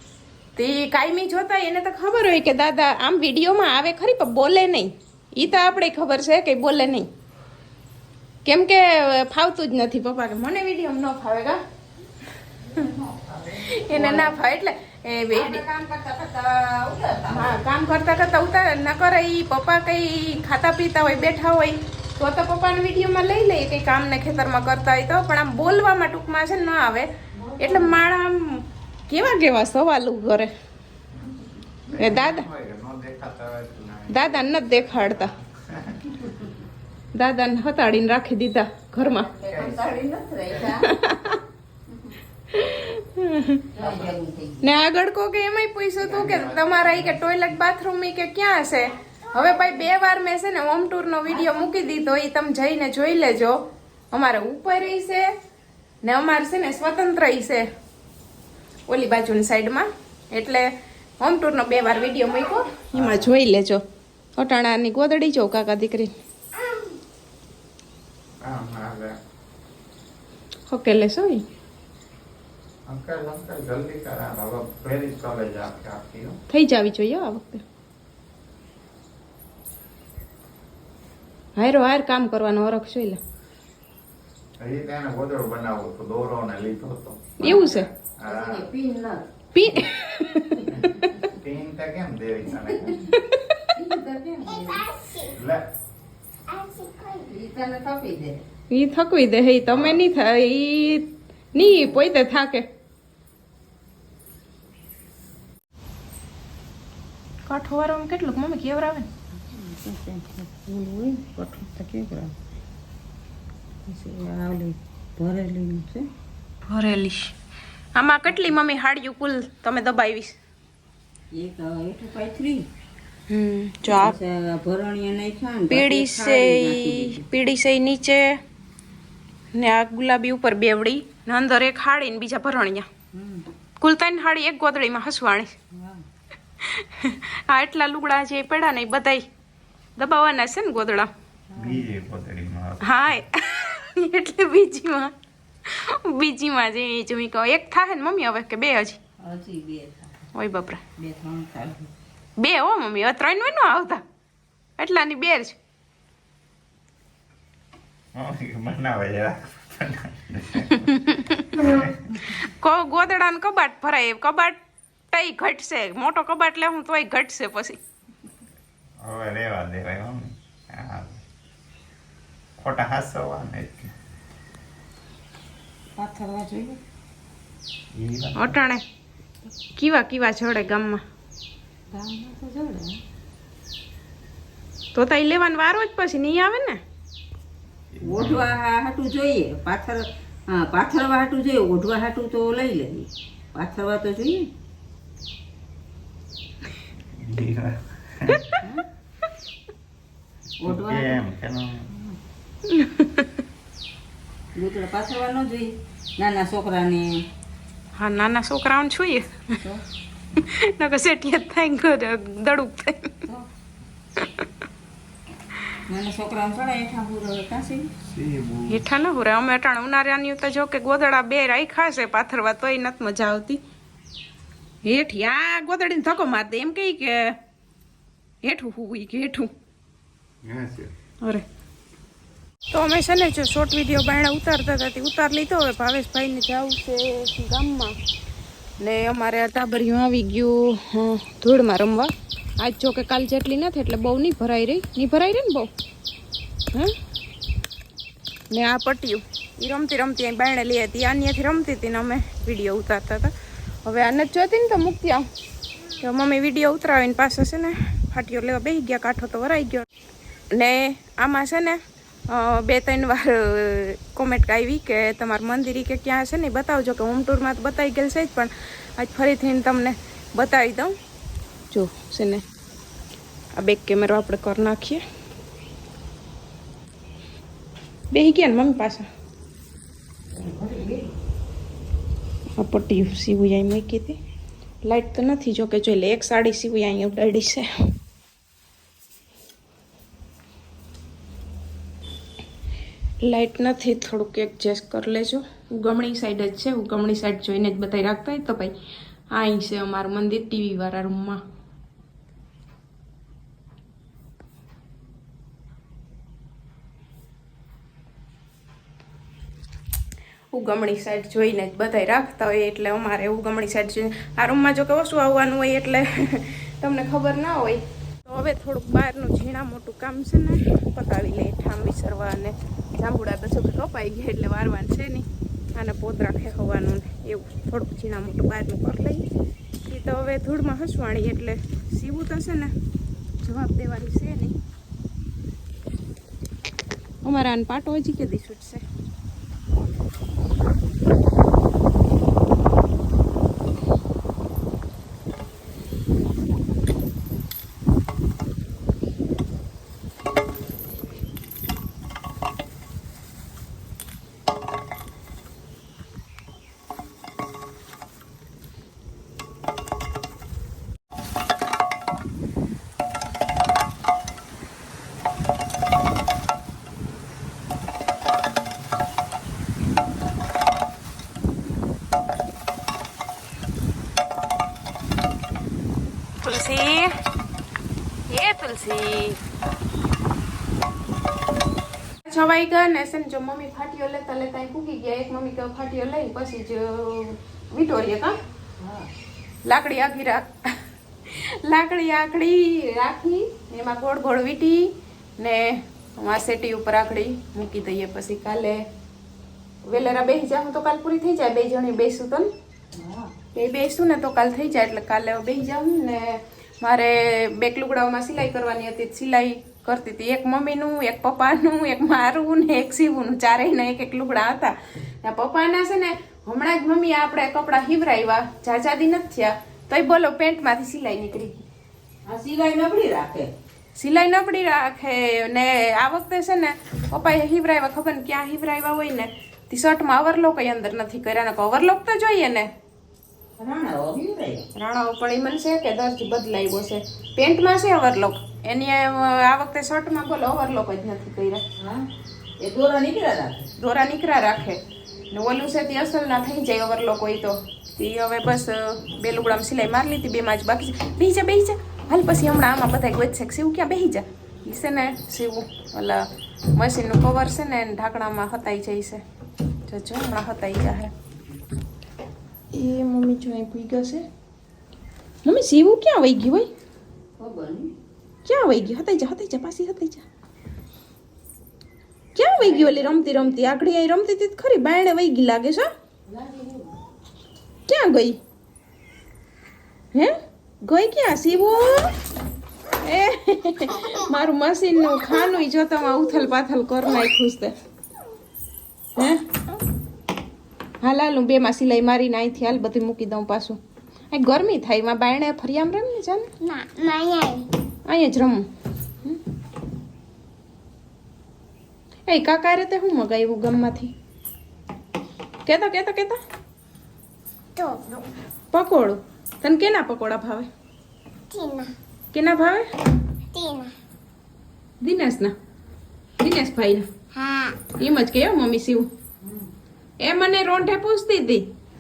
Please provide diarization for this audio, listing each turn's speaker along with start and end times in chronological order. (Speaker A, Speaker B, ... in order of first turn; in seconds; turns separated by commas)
Speaker A: 0.6-7.1, Speaker A: 8.4-11.6, Speaker B: 12.7-14.4, Speaker A: 13.6-15.6, Speaker B: 15.3-17.6, Speaker A: 17.3-30.5, Speaker B: 27.4-28.0, Speaker C: 31.9-36.2, Speaker A: 32.0-32.5, Speaker A: 34.1-35.3, Speaker B: 36.2-36.5, Speaker A: 37.1-39.3, Speaker B: 39.0-40.9, Speaker C: 39.5-40.8, Speaker A: 40.8-41.4, Speaker B: 41.9-42.2, Speaker A: 42.5-43.7, Speaker B: 43.7-44.7, Speaker C: 43.8-44.1, Speaker A: 44.6-53.6, Speaker C: 46.0-47.5, Speaker B: 51.3-51.8, Speaker A: 54.1-55.3, Speaker A: 56.0-57.7, Speaker A: 58.9-63.8, Speaker C: 62.9-63.3, Speaker A: 64.4-66.2, Speaker C: 68.4-69.1, Speaker A: 70.7-71.4, Speaker C: 72.9-76.4, Speaker A: 76.5-77.6, Speaker A: 81.6-83.2, Speaker C: 84.6-87.4, Speaker A: 87.4-87.9, Speaker B: 87.4-89.3, Speaker C: 88.2-88.7, Speaker A: 89.5-91.3, Speaker B: 90.6-91.0, Speaker C: 90.8-93.1, Speaker B: 92.5-93.2, Speaker A: 93.1-93.7, Speaker B: 93.7-94.9, Speaker D: 94.4-95.4, Speaker C: 95.3-95.7, Speaker D: 96.5-97.3, Speaker B: 97.2-98.4, Speaker A: 98.7-102.7, Speaker C: 99.7-100.0, Speaker B: 101.6-101.9, Speaker A: 107.5-109.1, Speaker B: 109.4-112.3, Speaker B: 113.9-116.1, Speaker A: 116.7-117.3, Speaker A: 118.0-120.3, Speaker B: 121.3-122.7, Speaker A: 123.3-124.2, Speaker B: 123.9-127.2, Speaker A: 125.7-128.4, Speaker A: 129.5-132.9, Speaker B: 133.1-133.5, Speaker A: 133.8-135.5, Speaker B: 135.7-136.0, Speaker A: 136.6-139.3, Speaker A: 140.0-141.1, Speaker B: 141.5-141.9, Speaker C: 141.6-143.2, Speaker A: 142.8-145.1, Speaker A: 145.7-149.0, Speaker B: 149.2-150.3, Speaker A: 150.3-150.8, Speaker B: 151.0-151.9, Speaker A: 152.4-154.0, Speaker A: 154.8-155.6, Speaker C: 158.1-160.9, Speaker A: 160.8-161.6, Speaker C: 161.6-162.2, Speaker A: 162.4-164.6, Speaker A: 165.1-167.8, Speaker C: 169.0-171.2, Speaker C: 172.6-173.9, Speaker B: 176.0-176.8, Speaker C: 177.9-178.6, Speaker A: 178.4-178.8, Speaker A: 179.8-181.0, Speaker B: 181.9-183.0, Speaker A: 184.9-186.8, Speaker C: 187.9-188.6, Speaker B: 188.1-194.5, Speaker C: 197.2-198.5, Speaker A: 198.3-198.6, Speaker B: 200.6-201.2, Speaker C: 200.6-201.9, Speaker B: 201.9-202.2, Speaker A: 202.7-203.3, Speaker B: 204.6-207.2, Speaker A: 208.0-209.6, Speaker A: 210.4-213.2, Speaker A: 214.2-214.5, Speaker B: 215.9-217.9, Speaker C: 218.1-218.8, Speaker A: 218.7-223.6, Speaker A: 224.8-227.4, Speaker A: 228.4-229.5, Speaker C: 230.4-230.9, Speaker A: 232.7-238.0, Speaker A: 238.8-245.7, Speaker A: 248.5-253.3, Speaker A: 253.8-255.3, Speaker A: 256.0-259.9, Speaker A: 260.5-270.9, Speaker A: 271.7-272.4, Speaker A: 273.6-275.0, Speaker A: 278.1-279.1, Speaker B: 280.3-281.1, Speaker A: 282.6-284.2, Speaker A: 284.8-287.9, Speaker A: 293.2-298.7, Speaker A: 299.3-301.4, Speaker A: 310.5-329.2, Speaker A: 329.9-332.7, Speaker A: 333.4-334.6, Speaker A: 337.2-338.8, Speaker A: 376.4-377.1, Speaker A: 378.3-379.4, Speaker A: 382.2-388.4, Speaker B: 388.8-389.1, Speaker A: 389.7-398.9, Speaker A: 399.9-402.5, Speaker B: 402.9-403.3, Speaker A: 403.5-421.6, Speaker B: 422.3-423.5, Speaker A: 424.0-432.7, Speaker B: 433.6-434.7, Speaker A: 434.8-441.6, Speaker B: 441.8-442.1, Speaker B: 442.6-443.7, Speaker A: 443.8-459.2, Speaker A: 459.9-461.1, Speaker A: 462.7-464.3, Speaker A: 465.4-466.7, Speaker B: 467.4-467.9, Speaker A: 468.5-470.2, Speaker A: 472.4-475.9, Speaker B: 472.6-473.8, Speaker B: 476.3-477.0, Speaker A: 477.9-478.4, Speaker A: 480.1-482.1, Speaker A: 483.0-487.7, Speaker A: 489.2-489.4, Speaker A: 491.0-493.8, Speaker A: 494.3-496.5, Speaker D: 496.6-497.7, Speaker A: 498.1-498.7, Speaker A: 502.3-504.1, Speaker A: 505.7-506.4, Speaker D: 507.8-508.2, Speaker A: 508.7-510.7, Speaker D: 511.5-511.9, Speaker A: 512.3-512.9, Speaker D: 513.5-513.9, Speaker A: 515.0-515.5, Speaker A: 516.4-517.1, Speaker D: 517.3-517.8, Speaker A: 518.0-519.1, Speaker B: 519.4-519.7, Speaker A: 520.2-521.7